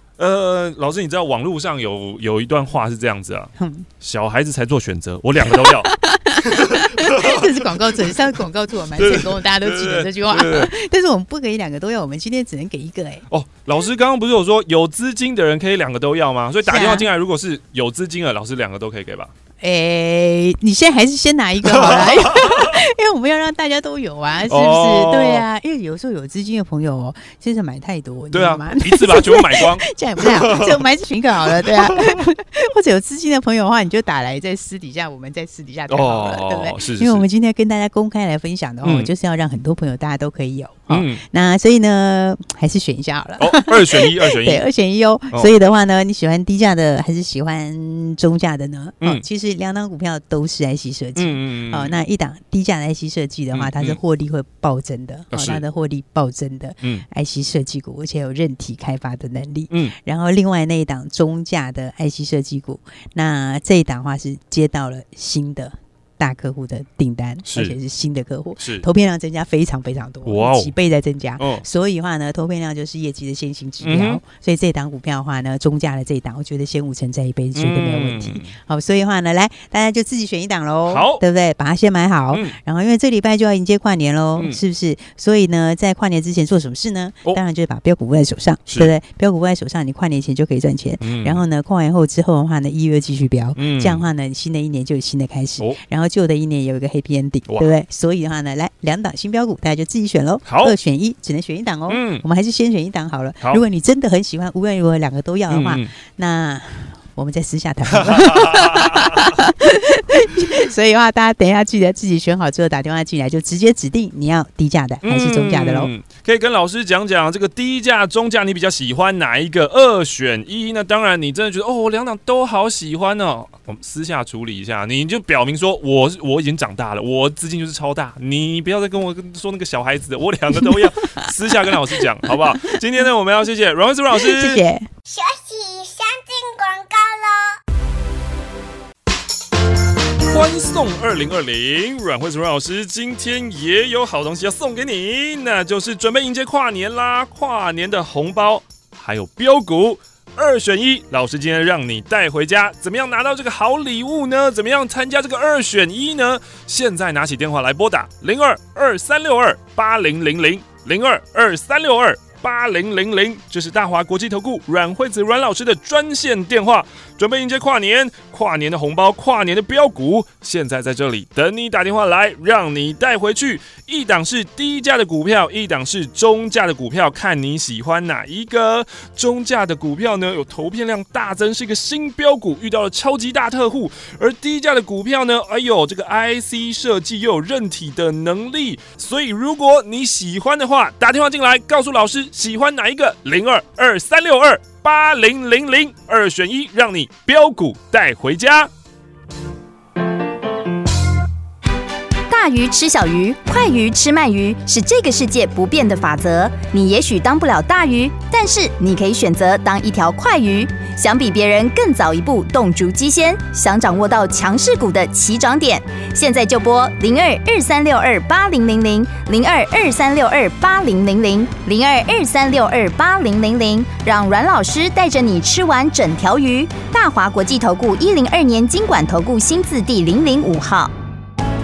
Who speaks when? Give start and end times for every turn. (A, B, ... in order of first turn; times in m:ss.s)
0:00.2-0:08.3 A
0:03.6-0:03.9 B
0:05.5-0:13.2 B
0:09.0-0:10.7 A
0:13.3-0:19.3 A
0:16.6-0:17.1 B
0:19.6-1:55.9 B
0:21.7-0:22.8 A
0:24.5-0:25.5 A
0:28.3-0:30.8 A
0:31.6-0:32.2 A
0:35.9-0:37.3 A
0:38.8-0:39.1 A
0:40.9-0:41.2 A
0:43.4-0:44.6 A
0:51.2-0:52.0 A
0:53.5-0:54.0 A
0:55.3-0:55.6 A
0:59.7-1:00.0 A
1:07.5-1:07.8 A
1:08.6-1:08.9 A
1:10.3-1:10.7 A
1:11.4-1:11.6 A
1:13.8-1:14.2 A
1:17.6-1:18.6 A
1:20.9-1:21.2 A
1:22.3-1:22.6 A
1:28.7-1:28.9 A
1:31.0-1:31.4 A
1:33.6-1:34.0 A
1:37.5-1:37.8 A
1:40.4-1:40.8 A
1:41.9-1:42.2 A
1:45.5-1:45.9 A
1:47.9-1:49.4 A
1:55.0-2:14.6 A
2:10.6-2:12.8 B
2:14.1-2:14.9 B
2:15.1-2:17.6 C
2:20.3-3:18.7 A
3:22.3-3:50.9 D